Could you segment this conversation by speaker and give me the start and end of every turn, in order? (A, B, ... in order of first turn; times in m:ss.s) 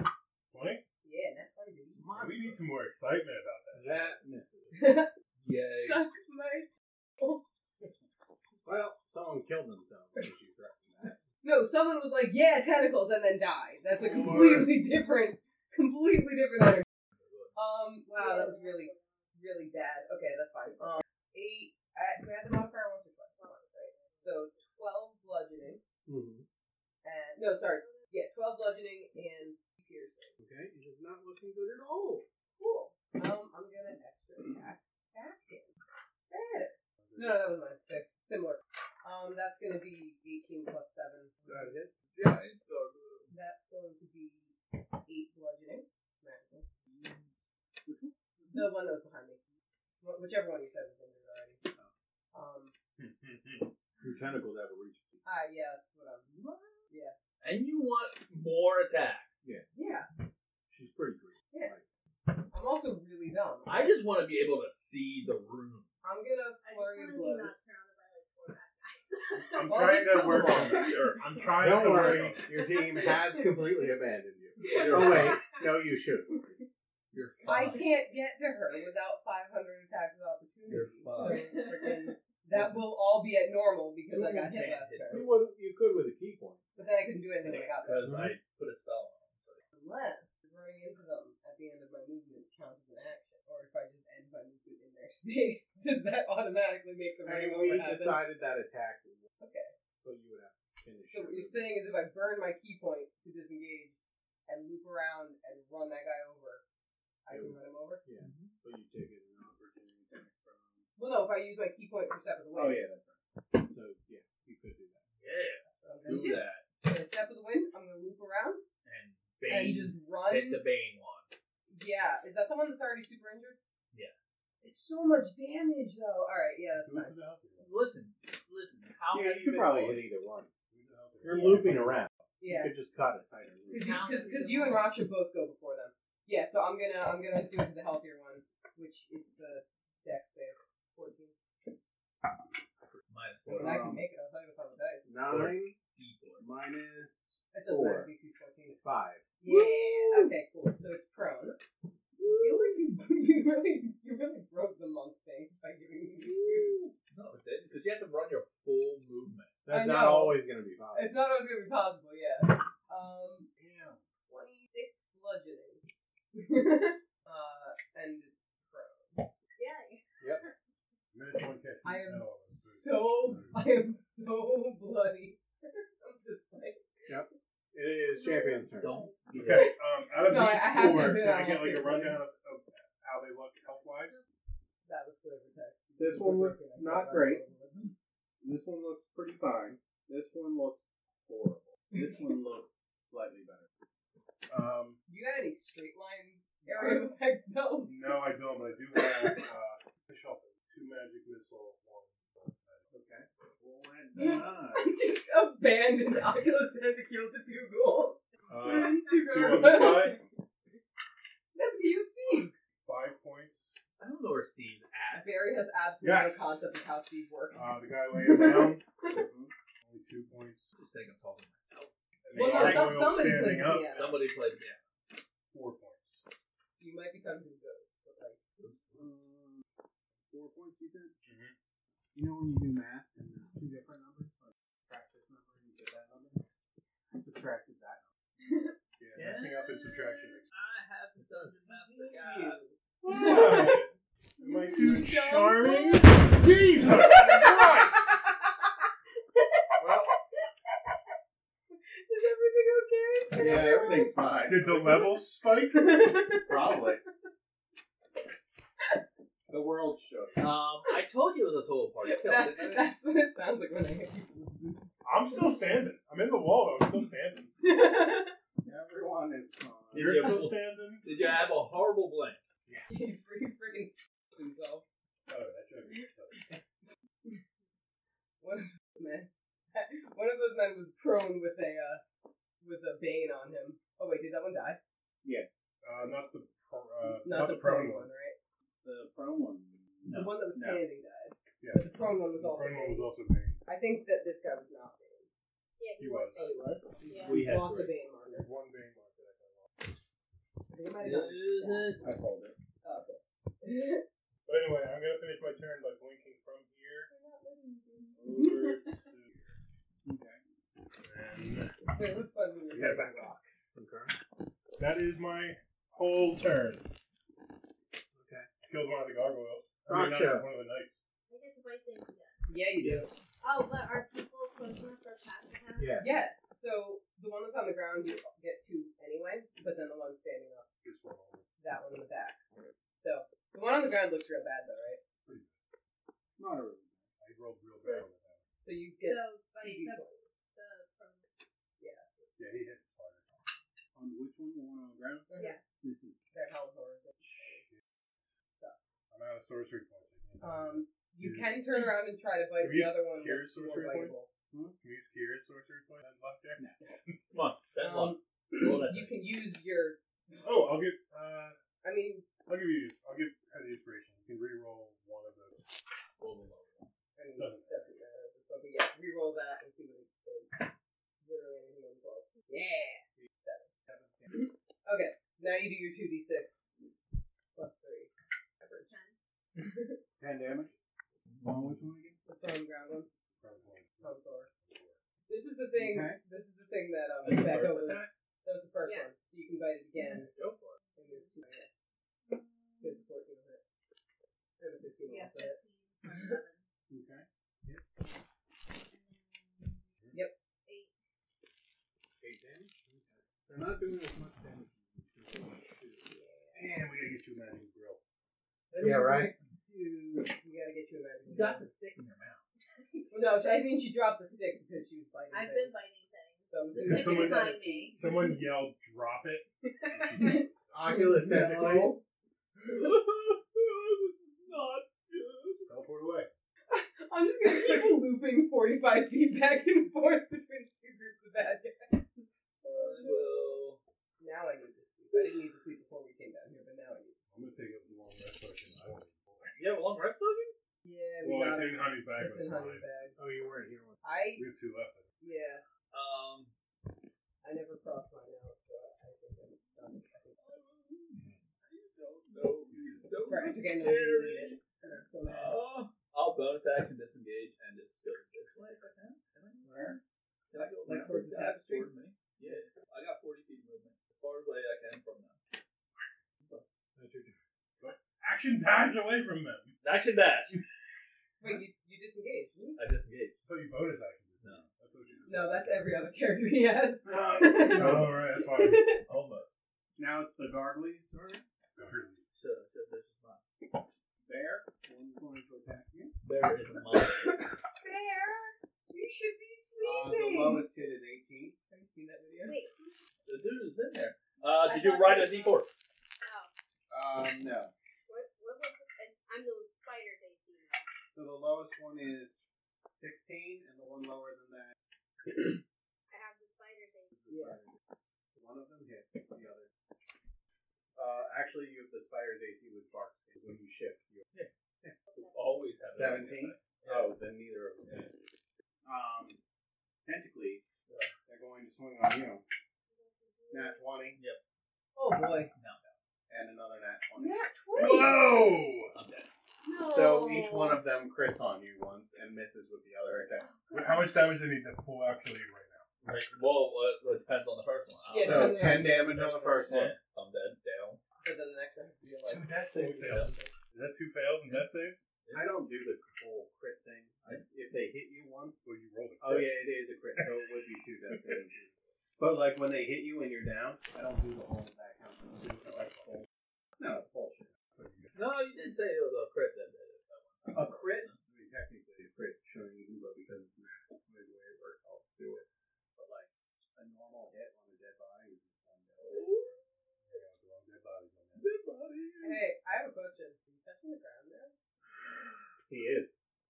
0:00.5-0:00.8 A
0:01.0-0:02.0 B
0:02.0-0:02.6 C
0:02.1-0:04.2 A
0:03.7-0:05.0 C
0:04.7-0:05.1 B
0:05.4-0:06.0 D
0:05.8-0:07.4 B
0:08.6-0:11.2 C
0:11.4-0:16.8 B
0:14.1-0:14.7 A
0:17.1-0:17.6 D
0:17.6-0:25.8 B
0:18.2-0:19.2 E
0:23.3-0:24.7 E
0:26.1-0:26.5 C
0:27.0-0:30.3 B
0:27.4-0:28.1 E
0:30.4-0:32.2 C
0:32.6-0:35.7 B
0:36.3-0:41.7 B
0:37.0-0:37.4 A
0:41.5-0:41.9 C
0:42.2-0:43.3 D
0:43.3-0:46.7 B
0:47.9-0:48.1 C
0:48.5-0:49.4 B
0:50.0-0:51.6 B
0:52.3-0:52.7 B
0:53.0-0:53.7 A
0:54.0-0:55.2 C
0:55.2-0:56.3 B
0:56.3-0:56.8 C
0:56.9-0:57.2 B
0:57.4-0:59.4 D
0:59.7-1:00.1 B
1:00.7-1:01.9 C
1:02.5-1:03.9 B
1:03.7-1:05.9 D
1:06.0-1:07.6 B
1:06.6-1:11.6 E
1:09.3-1:12.5 A
1:09.6-1:10.9 B
1:10.2-1:12.1 D
1:11.6-1:16.6 C
1:12.5-1:14.0 E
1:14.6-1:15.7 E
1:14.7-1:15.4 D
1:17.1-1:17.9 D
1:17.1-1:17.8 C
1:17.4-1:25.3 B
1:20.7-1:21.6 D
1:21.2-1:22.1 E
1:22.5-1:22.8 C
1:24.1-1:24.5 C
1:24.2-1:25.2 D
1:25.1-1:26.7 C
1:26.8-1:28.1 B
1:27.5-1:29.6 D
1:28.0-1:28.4 C
1:29.7-1:38.2 B
1:37.2-1:39.2 C
1:39.4-1:39.7 B
1:40.0-1:41.7 C
1:41.1-1:43.9 B
1:44.5-1:46.6 B
1:47.2-1:48.0 B
1:47.3-1:50.9 C
1:48.2-1:48.5 D
1:51.0-1:52.8 B
1:52.5-1:55.0 C
1:55.2-1:56.6 D
1:55.8-1:58.6 B
1:58.8-2:01.3 D
1:59.5-2:00.6 B
2:01.7-2:03.6 B
2:03.9-2:04.4 D
2:04.6-2:07.1 B
2:06.8-2:07.8 A
2:07.6-2:10.0 D
2:09.1-2:10.5 C
2:10.7-2:12.0 A
2:11.2-2:13.9 C
2:12.4-2:12.7 B
2:13.7-2:21.4 B
2:13.8-2:14.9 E
2:23.1-2:23.9 D
2:23.5-2:24.0 C
2:23.6-2:25.1 B
2:25.1-2:25.8 C
2:25.3-2:26.4 D
2:26.4-2:28.1 C
2:27.5-2:28.8 B
2:28.8-2:30.3 C
2:29.4-2:31.6 B
2:32.2-2:32.4 C
2:32.4-2:36.8 B
2:36.2-2:36.9 C
2:37.1-2:39.6 D
2:39.6-2:41.1 C
2:39.7-2:43.5 B
2:43.6-2:44.0 A
2:44.3-2:45.8 B
2:46.3-2:49.2 B
2:49.6-2:50.5 E
2:51.1-2:53.6 A
2:51.8-2:57.1 B
2:57.1-2:58.9 C
2:58.1-2:59.2 E
2:58.8-2:59.7 D
2:59.4-3:04.2 A
2:59.4-3:02.2 B
3:04.9-3:07.9 B
3:06.0-3:07.4 C
3:08.4-3:13.7 C
3:14.5-3:15.0 A
3:15.1-3:18.2 B
3:16.6-3:17.1 C
3:17.8-3:22.9 A
3:18.9-3:19.4 B
3:22.9-3:24.9 C
3:24.2-3:30.2 B
3:28.5-3:30.2 A
3:31.5-3:32.5 B
3:32.8-3:33.8 A
3:34.0-3:35.3 D
3:35.2-3:39.2 B
3:36.0-3:36.6 A
3:37.5-3:38.9 A
3:39.1-3:39.5 C
3:39.8-3:40.7 A
3:40.7-3:43.4 D
3:42.2-3:44.2 A
3:42.3-3:44.2 B
3:43.9-3:44.8 D
3:45.5-3:46.2 A
3:46.8-3:48.4 B
3:48.9-3:49.6 C
3:50.3-3:51.1 C
3:51.2-3:51.6 A
3:52.1-3:56.4 C
3:57.1-3:58.1 C
3:58.4-3:58.7 B
3:59.0-4:00.4 A
3:59.2-4:02.6 D
4:01.5-4:03.8 B
4:03.0-4:08.2 A
4:04.4-4:08.3 B
4:09.8-4:10.1 C
4:12.0-4:14.1 B
4:13.4-4:15.0 C
4:14.5-4:16.0 A
4:15.1-4:16.8 B
4:16.3-4:17.0 C
4:19.5-4:20.5 C
4:20.4-4:22.9 D
4:22.0-4:25.3 B
4:25.0-4:27.5 A
4:27.6-4:28.3 B
4:28.6-4:30.4 C
4:29.9-4:31.1 A
4:29.9-4:32.4 D
4:32.9-4:34.8 B
4:35.3-4:36.4 A
4:36.3-4:36.6 B
4:38.4-4:42.0 B
4:42.6-4:44.8 B
4:45.2-4:45.5 C
4:45.8-4:48.1 A
4:47.2-4:48.4 B
4:48.8-4:50.8 C
4:50.1-4:50.3 D
4:50.1-4:53.1 B
4:51.6-4:53.6 A
4:53.6-4:55.3 B
4:55.8-4:57.5 E
4:56.0-4:56.4 A
4:56.3-4:58.5 B
4:57.2-4:58.0 D
4:58.2-4:59.7 A
5:00.7-5:02.0 B
5:01.0-5:02.1 D
5:02.0-5:02.6 C
5:02.8-5:04.0 B
5:04.5-5:07.1 A
5:07.1-5:08.9 B
5:08.2-5:09.4 A
5:08.2-5:08.5 C
5:10.0-5:10.4 C
5:11.0-5:11.9 A
5:11.9-5:13.7 B
5:12.7-5:14.1 C
5:14.8-5:16.9 A
5:18.1-5:18.5 C
5:18.6-5:21.0 A
5:19.9-5:20.5 C
5:21.3-5:22.4 E
5:22.5-5:23.1 B
5:22.8-5:23.1 C
5:23.4-5:26.1 E
5:25.8-5:26.1 C
5:26.0-5:30.6 B
5:30.8-5:31.5 A
5:31.6-5:32.4 B
5:33.0-5:35.0 B
5:35.2-5:35.5 A
5:36.4-5:37.1 C
5:37.2-5:38.4 A
5:37.8-5:38.0 E
5:38.6-5:40.2 B
5:39.0-5:41.3 E
5:41.8-5:42.3 B
5:42.4-5:43.2 A
5:43.9-5:45.3 C
5:45.3-5:45.6 B
5:45.3-5:45.6 E
5:45.8-5:46.2 C
5:46.3-5:47.6 B
5:47.5-5:47.8 A
5:49.1-5:51.8 A
5:50.4-5:54.3 B
5:52.6-5:54.1 A
5:54.5-5:54.8 C
5:54.8-5:57.2 A
5:57.3-5:59.1 D
5:57.8-6:00.4 B
6:00.4-6:01.6 A
6:01.8-6:02.3 B
6:02.4-6:05.6 A
6:06.2-6:06.9 D
6:07.2-6:10.7 B
6:07.4-6:07.9 A
6:11.2-6:13.7 B
6:13.8-6:14.5 C
6:14.3-6:16.6 B
6:17.5-6:18.9 B
6:18.9-6:19.2 E
6:19.6-6:20.0 B
6:20.2-6:20.8 C
6:21.3-6:21.8 D
6:21.4-6:22.2 C
6:22.2-6:23.1 B
6:23.4-6:25.0 A
6:24.0-6:24.5 B
6:25.3-6:30.3 B
6:25.8-6:26.2 C
6:27.2-6:28.1 D
6:28.8-6:29.1 E
6:30.3-6:30.8 D
6:30.9-6:31.4 E
6:31.0-6:31.7 B
6:32.3-6:33.0 E
6:32.8-6:33.6 B
6:34.6-6:36.4 B
6:35.1-6:36.6 E
6:36.9-6:37.8 C
6:38.7-6:39.9 E
6:40.6-6:40.9 E
6:42.2-6:46.1 C
6:46.1-6:46.6 E
6:46.6-6:48.0 A
6:48.7-6:49.4 D
6:48.8-6:49.3 C
6:49.7-6:51.7 B
6:51.3-6:52.4 D
6:52.8-6:53.4 E
6:53.1-6:55.7 B
6:55.3-6:58.0 E
6:56.5-6:58.2 B
6:56.8-7:00.5 A
7:00.0-7:00.4 E
7:00.2-7:02.0 B
7:00.7-7:02.0 C
7:02.6-7:05.7 D
7:05.7-7:06.3 A
7:06.7-7:12.0 B
7:12.6-7:13.6 B
7:12.6-7:13.8 D
7:14.2-7:17.2 B
7:15.1-7:15.4 D
7:17.3-7:19.6 A
7:19.6-7:20.6 D
7:20.8-7:23.2 B
7:21.2-7:22.9 A
7:23.2-7:24.0 C
7:24.0-7:24.4 B
7:24.4-7:25.1 A
7:25.2-7:25.6 B
7:25.9-7:26.5 D
7:27.4-7:30.4 B
7:30.4-7:34.6 D
7:31.2-7:31.4 A
7:32.7-7:33.1 A
7:33.3-7:35.6 B
7:35.2-7:40.0 D
7:39.6-7:40.0 C
7:40.5-7:45.4 D
7:40.8-7:41.9 B
7:47.0-7:47.4 C
7:47.8-7:49.8 A
7:49.8-7:50.5 D
7:51.4-7:52.8 B
7:52.8-7:53.4 D
7:53.4-7:55.8 A
7:55.3-7:59.0 B
7:57.0-7:58.2 C
7:57.6-7:59.0 A
7:59.0-7:59.5 D
8:00.0-8:01.4 C
8:01.8-8:02.2 A
8:02.3-8:03.8 D
8:04.2-8:06.1 C
8:06.2-8:07.4 D
8:07.0-8:10.8 B
8:09.8-8:11.6 C
8:11.7-8:12.6 B
8:12.4-8:12.9 E
8:13.2-8:15.7 D
8:14.6-8:15.6 B
8:16.2-8:16.5 E
8:16.9-8:17.7 C
8:18.1-8:20.9 E
8:21.1-8:22.4 C
8:23.0-8:24.7 C
8:26.1-8:27.1 E
8:27.1-8:27.8 C
8:27.3-8:27.6 B
8:28.3-8:29.7 C
8:31.0-8:34.2 C
8:35.1-8:35.6 E
8:35.3-8:37.1 D
8:36.0-8:38.1 C
8:38.8-8:39.4 C
8:40.0-8:40.7 C
8:40.9-8:41.1 D
8:41.2-8:42.4 C
8:42.9-8:43.9 E
8:43.5-8:44.2 C
8:45.0-8:45.5 B
8:45.5-8:45.9 D
8:46.3-8:47.4 C
8:47.2-8:48.2 B
8:47.8-8:48.9 A
8:48.9-8:49.3 D
8:49.6-8:50.8 E
8:49.8-8:53.5 C
8:53.4-8:54.2 E
8:53.7-8:55.9 A
8:56.0-8:58.8 D
8:58.1-8:59.7 B
8:58.2-9:00.0 C
8:59.6-9:01.0 D
9:01.2-9:03.5 B
9:02.3-9:05.0 A
9:03.1-9:03.3 D
9:05.3-9:08.6 C
9:08.6-9:09.6 A
9:09.2-9:16.2 C
9:10.2-9:10.5 A
9:11.1-9:11.4 A
9:15.4-9:16.1 A
9:16.8-9:17.5 C
9:17.5-9:18.1 A
9:18.1-9:21.2 D
9:20.5-9:29.6 C
9:29.0-9:29.6 D
9:30.0-9:31.5 A
9:31.4-9:32.4 D
9:32.2-9:34.5 B
9:35.7-9:36.2 C